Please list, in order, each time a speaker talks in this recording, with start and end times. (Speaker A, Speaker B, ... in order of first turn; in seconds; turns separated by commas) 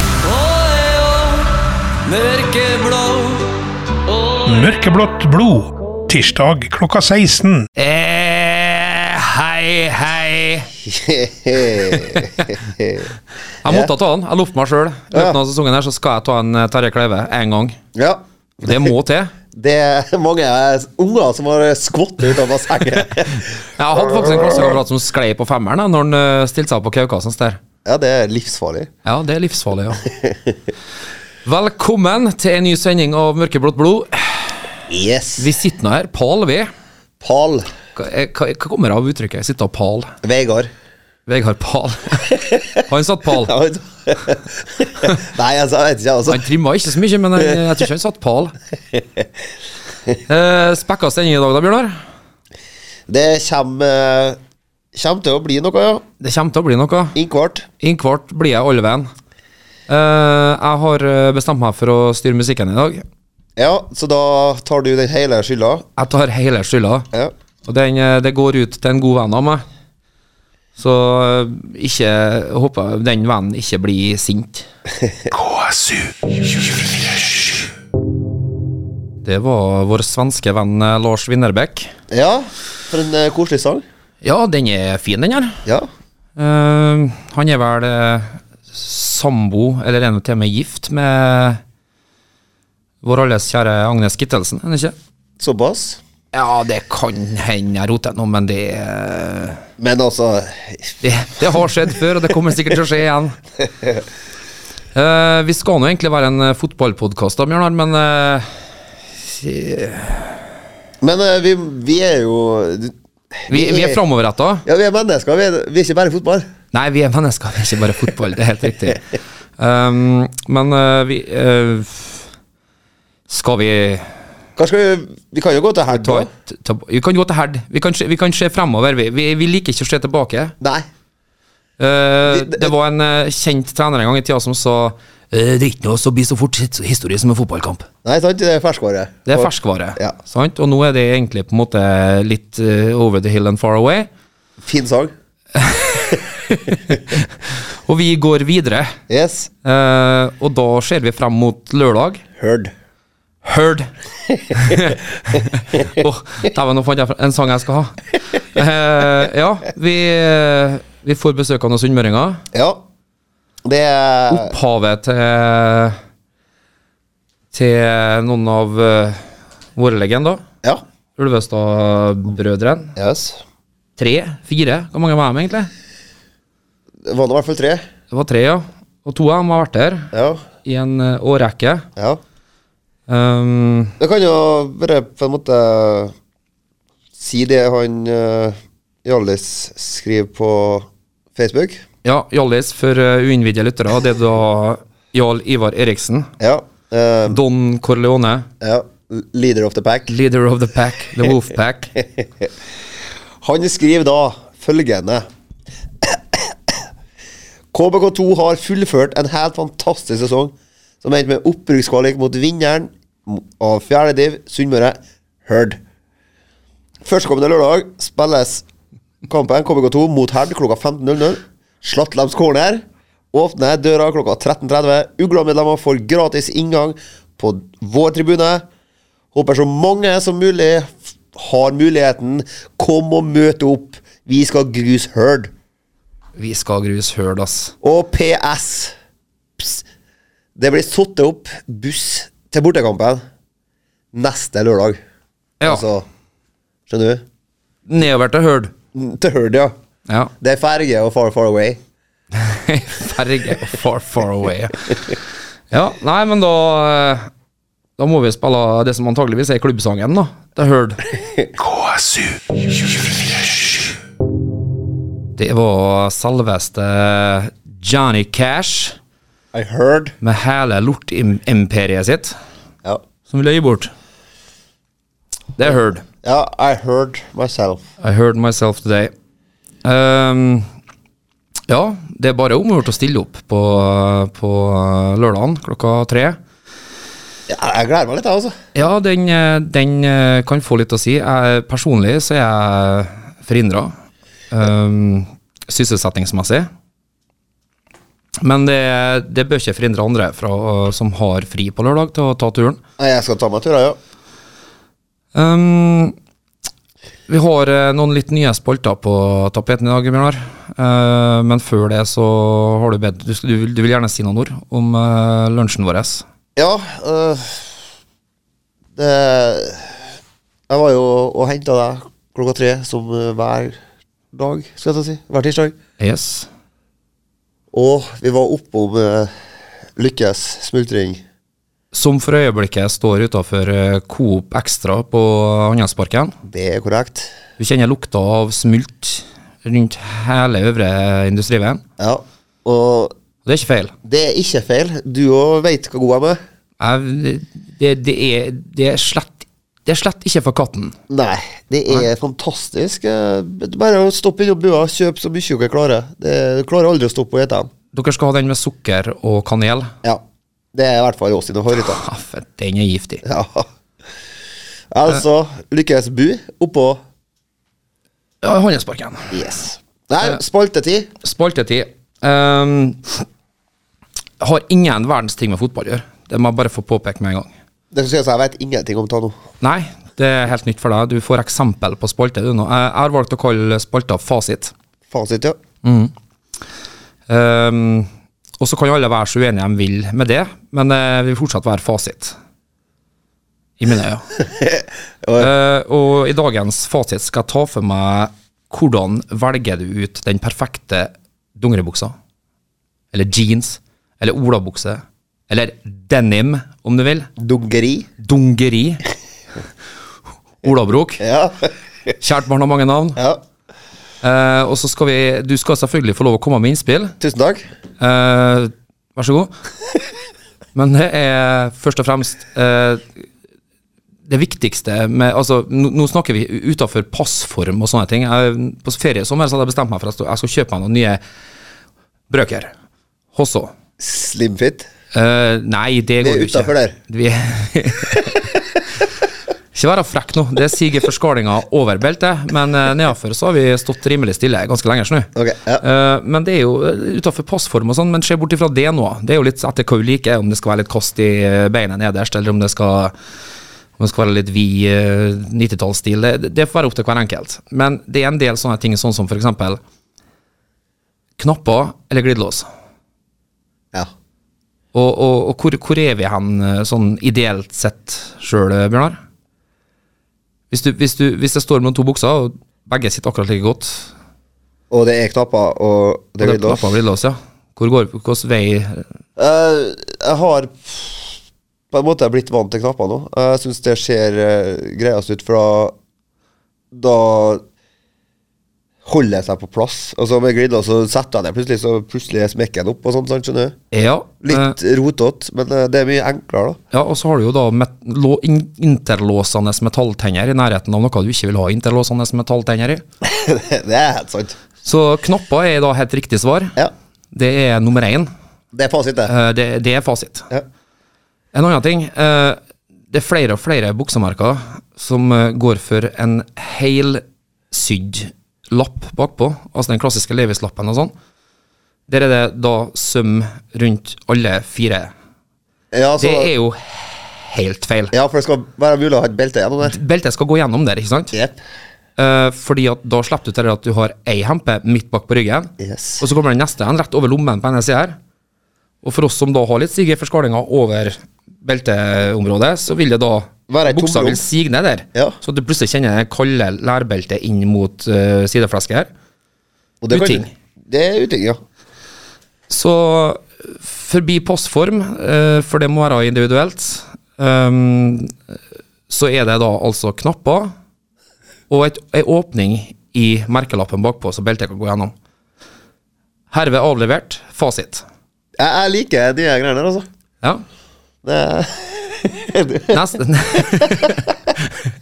Speaker A: 0.3-1.4, Speaker A: 2.0-3.5, Speaker A: 4.1-4.4, Speaker B: 4.5-7.7, Speaker A: 7.8-10.7, Speaker C: 10.8-13.1, Speaker A: 11.8-12.6, Speaker A: 13.6-17.8, Speaker C: 13.6-13.9, Speaker C: 17.9-18.9, Speaker A: 18.6-19.3, Speaker C: 19.5-24.8, Speaker A: 23.4-27.6, Speaker C: 27.8-28.9, Speaker A: 29.0-30.1, Speaker C: 30.0-30.6, Speaker A: 31.4-34.6, Speaker C: 34.9-35.5, Speaker A: 35.4-36.7, Speaker C: 37.2-37.7, Speaker A: 37.9-40.1, Speaker C: 40.2-40.7, Speaker A: 41.3-43.5, Speaker C: 42.5-42.8, Speaker C: 43.4-46.4, Speaker A: 46.3-48.5, Speaker C: 48.9-49.2, Speaker A: 50.2-52.0, Speaker C: 53.1-54.4, Speaker C: 54.9-56.0, Speaker A: 56.2-57.1, Speaker C: 57.1-57.7, Speaker A: 57.8-59.1, Speaker A: 59.9-63.0, Speaker C: 63.6-65.8, Speaker A: 66.0-67.1, Speaker A: 67.6-69.6, Speaker A: 70.8-74.7, Speaker C: 75.0-75.3, Speaker A: 79.2-81.9, Speaker C: 82.1-83.8, Speaker A: 84.2-85.6, Speaker A: 86.3-91.6, Speaker A: 93.0-94.9, Speaker C: 95.4-96.0, Speaker A: 96.3-99.6, Speaker C: 99.8-100.9, Speaker A: 101.0-103.4, Speaker A: 104.9-108.5, Speaker A: 109.2-110.4, Speaker C: 111.0-114.0, Speaker A: 113.5-114.6, Speaker C: 114.6-116.5, Speaker A: 116.7-119.0, Speaker A: 119.6-122.3, Speaker A: 123.3-124.1, Speaker C: 124.5-126.3, Speaker A: 125.9-130.5, Speaker C: 130.6-130.8, Speaker A: 131.8-137.8, Speaker C: 132.2-132.7, Speaker C: 138.0-140.1, Speaker A: 139.3-144.1, Speaker C: 144.6-145.1, Speaker A: 145.5-149.0, Speaker C: 149.1-149.5, Speaker A: 149.6-152.2, Speaker C: 152.4-152.7, Speaker A: 153.4-153.9, Speaker C: 154.2-156.0, Speaker A: 154.5-162.4, Speaker C: 162.5-162.8, Speaker C: 163.6-164.5, Speaker A: 164.3-166.0, Speaker A: 167.5-170.4, Speaker A: 171.2-172.9, Speaker C: 172.9-173.4, Speaker A: 174.0-175.7, Speaker C: 177.0-177.8, Speaker A: 178.1-180.1, Speaker C: 180.1-180.4, Speaker A: 180.6-181.9, Speaker A: 183.1-183.9, Speaker C: 184.0-186.1, Speaker C: 187.2-191.8, Speaker A: 192.0-196.3, Speaker C: 196.4-197.4, Speaker A: 197.3-198.5, Speaker C: 198.6-200.1, Speaker A: 200.1-201.9, Speaker C: 202.0-202.5, Speaker C: 203.4-205.2, Speaker C: 206.0-206.8, Speaker C: 207.7-215.8, Speaker C: 217.0-218.6, Speaker C: 219.3-228.6, Speaker C: 229.3-235.5, Speaker A: 236.4-237.7, Speaker C: 237.8-238.9, Speaker C: 239.6-239.8, Speaker C: 240.6-243.2, Speaker C: 244.1-245.0, Speaker A: 245.6-245.8, Speaker C: 245.6-246.1, Speaker C: 246.9-247.2, Speaker A: 247.9-248.7, Speaker C: 248.9-249.7, Speaker C: 250.4-251.8, Speaker A: 252.3-257.3, Speaker A: 258.0-261.0, Speaker C: 261.1-261.5, Speaker A: 265.4-269.0, Speaker C: 269.5-270.1, Speaker A: 270.2-272.3, Speaker A: 273.3-273.9, Speaker A: 275.6-276.0, Speaker C: 276.2-277.8, Speaker A: 278.0-279.1, Speaker A: 279.8-280.7, Speaker A: 281.7-286.4, Speaker C: 287.5-288.6, Speaker A: 288.7-293.9, Speaker A: 294.5-296.7, Speaker A: 298.4-302.8, Speaker C: 303.0-304.0, Speaker A: 305.3-306.1, Speaker A: 307.3-316.2, Speaker C: 316.6-317.7, Speaker C: 318.9-320.0, Speaker C: 320.7-323.8, Speaker C: 324.3-325.8, Speaker A: 326.0-326.5, Speaker C: 327.7-329.3, Speaker C: 330.0-331.2, Speaker A: 331.9-336.4, Speaker C: 336.4-337.3, Speaker A: 337.6-341.8, Speaker C: 342.0-343.1, Speaker A: 343.4-343.9, Speaker C: 344.0-346.4, Speaker A: 346.8-350.9, Speaker C: 351.1-357.7, Speaker A: 357.9-359.9, Speaker C: 360.7-362.0, Speaker A: 361.7-363.2, Speaker C: 363.2-363.7, Speaker C: 364.9-367.0, Speaker A: 368.4-369.4, Speaker C: 369.3-371.1, Speaker A: 371.2-373.2, Speaker A: 374.4-377.5, Speaker C: 377.9-379.4, Speaker A: 379.6-384.7, Speaker C: 385.1-385.6, Speaker A: 385.8-386.1, Speaker A: 387.3-388.1, Speaker A: 388.6-392.4, Speaker A: 393.8-394.2, Speaker C: 394.4-395.5, Speaker A: 395.4-402.1, Speaker A: 403.1-407.3, Speaker C: 407.4-408.1, Speaker A: 408.2-409.0, Speaker A: 410.6-411.2, Speaker C: 411.2-412.1, Speaker A: 412.2-413.2, Speaker C: 413.1-413.4, Speaker A: 414.2-417.2, Speaker C: 417.2-417.6, Speaker A: 418.0-419.5, Speaker A: 420.7-423.2, Speaker A: 424.3-431.2, Speaker A: 432.3-432.7, Speaker A: 433.3-433.7, Speaker C: 434.0-434.9, Speaker A: 435.1-438.5, Speaker C: 436.2-436.9, Speaker A: 439.7-445.3, Speaker C: 445.3-445.8, Speaker A: 445.8-453.1, Speaker A: 454.0-459.8, Speaker A: 461.4-462.6, Speaker A: 464.9-469.2, Speaker A: 470.7-474.1, Speaker C: 474.9-476.9, Speaker A: 476.4-479.0, Speaker C: 479.4-481.4, Speaker C: 481.9-485.9, Speaker C: 486.9-487.6, Speaker C: 489.0-493.8, Speaker A: 493.9-494.8, Speaker C: 494.4-496.8, Speaker A: 496.9-503.0, Speaker C: 503.2-504.6, Speaker A: 504.8-506.8, Speaker A: 507.3-508.3, Speaker C: 508.7-509.3, Speaker A: 509.2-510.5, Speaker A: 511.5-512.6, Speaker A: 513.1-521.1, Speaker A: 522.1-525.1, Speaker C: 525.9-526.5, Speaker A: 526.2-528.1, Speaker C: 528.1-530.0, Speaker A: 529.8-531.3, Speaker C: 531.3-531.6, Speaker A: 532.2-538.2, Speaker C: 535.8-536.2, Speaker A: 539.0-549.1, Speaker C: 543.7-544.4, Speaker C: 550.0-551.6, Speaker A: 550.1-550.5, Speaker A: 552.7-558.4, Speaker A: 559.1-560.7, Speaker A: 561.7-565.1, Speaker A: 566.5-568.0, Speaker C: 568.6-570.0, Speaker C: 571.2-574.3, Speaker A: 572.9-574.8